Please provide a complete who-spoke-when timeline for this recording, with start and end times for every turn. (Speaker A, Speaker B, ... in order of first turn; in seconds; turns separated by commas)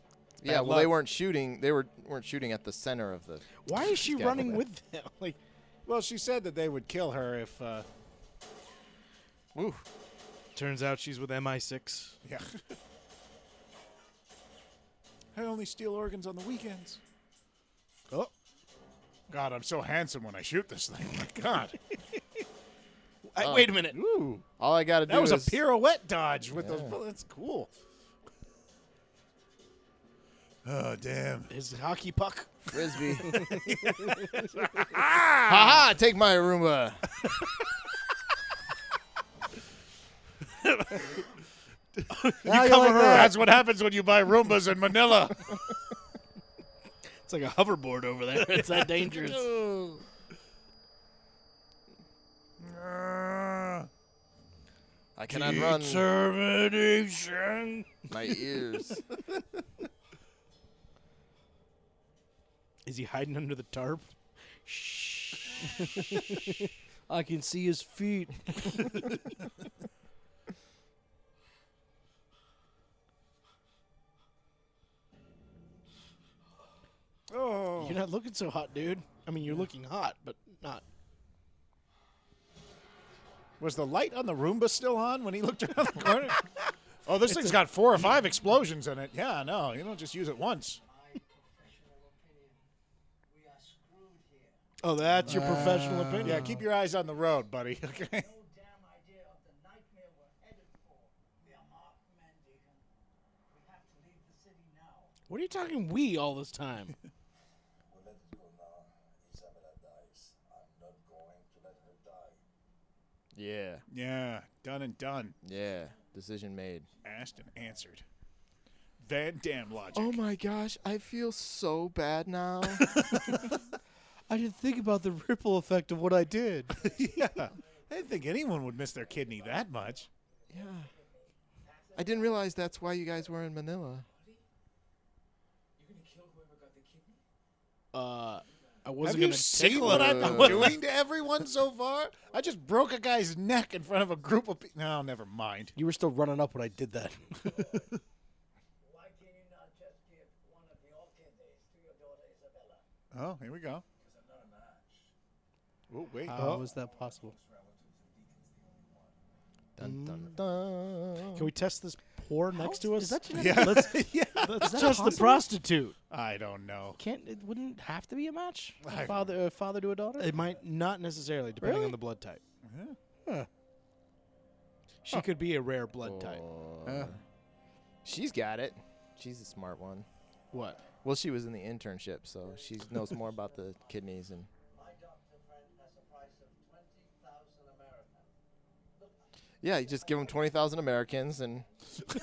Speaker A: 0.4-4.6, Speaker B: 0.4-0.9, Speaker B: 3.6-5.4, Speaker C: 5.8-7.8, Speaker A: 9.5-9.8, Speaker B: 10.5-12.2, Speaker C: 12.2-12.5, Speaker C: 15.3-17.0, Speaker C: 19.3-21.8, Speaker B: 23.2-24.0, Speaker A: 23.4-25.6, Speaker C: 25.1-27.7, Speaker A: 26.5-27.0, Speaker C: 30.6-31.5, Speaker B: 31.5-32.5, Speaker A: 32.6-33.6, Speaker C: 33.6-35.9, Speaker A: 35.5-37.1, Speaker B: 42.1-43.3, Speaker D: 42.4-43.3, Speaker C: 43.0-45.4, Speaker B: 47.2-49.4, Speaker A: 49.0-50.0, Speaker C: 52.6-53.9, Speaker A: 55.1-56.1, Speaker D: 55.3-57.9, Speaker A: 58.1-59.0, Speaker B: 62.8-64.1, Speaker B: 64.7-65.7, Speaker D: 67.1-69.1, Speaker C: 77.3-78.0, Speaker B: 77.8-80.8, Speaker C: 83.6-86.5, Speaker C: 87.0-90.8, Speaker B: 87.3-87.6, Speaker E: 90.9-92.6, Speaker E: 93.3-94.5, Speaker B: 94.8-96.5, Speaker C: 95.2-95.7, Speaker D: 95.2-96.6, Speaker C: 96.2-98.3, Speaker E: 98.2-102.8, Speaker E: 103.5-105.1, Speaker B: 105.3-107.0, Speaker F: 107.9-112.4, Speaker A: 113.3-113.8, Speaker C: 113.9-115.4, Speaker A: 115.4-116.9, Speaker F: 115.6-116.0, Speaker F: 116.9-118.0, Speaker C: 117.0-118.0, Speaker C: 119.0-120.2, Speaker A: 119.9-123.4, Speaker D: 124.3-126.9, Speaker E: 126.8-128.8, Speaker C: 126.9-130.1, Speaker A: 130.5-130.9, Speaker E: 131.9-133.3, Speaker A: 131.9-134.1, Speaker F: 134.0-134.4, Speaker F: 135.8-137.2, Speaker B: 137.9-140.8, Speaker F: 138.3-139.0, Speaker C: 139.0-145.7, Speaker A: 139.8-140.8, Speaker F: 142.2-142.8, Speaker F: 144.2-144.6, Speaker D: 145.7-147.4, Speaker E: 148.9-152.8, Speaker C: 153.1-153.8, Speaker F: 153.9-155.1, Speaker C: 155.9-156.6, Speaker B: 156.3-156.6, Speaker D: 156.3-157.3, Speaker F: 156.5-159.2, Speaker A: 159.8-161.5, Speaker B: 159.8-160.3, Speaker B: 161.3-165.9, Speaker D: 162.5-164.0, Speaker C: 163.3-165.2, Speaker D: 164.6-165.5, Speaker C: 166.1-167.0, Speaker D: 167.0-170.4, Speaker C: 168.8-169.3, Speaker B: 170.2-172.4, Speaker D: 171.6-172.0, Speaker C: 172.6-172.9, Speaker B: 175.1-176.4, Speaker A: 176.0-177.2, Speaker D: 176.8-177.1, Speaker A: 178.0-180.1, Speaker B: 180.5-180.8, Speaker A: 181.0-184.5, Speaker E: 183.2-183.9, Speaker E: 184.7-188.2, Speaker A: 189.6-191.7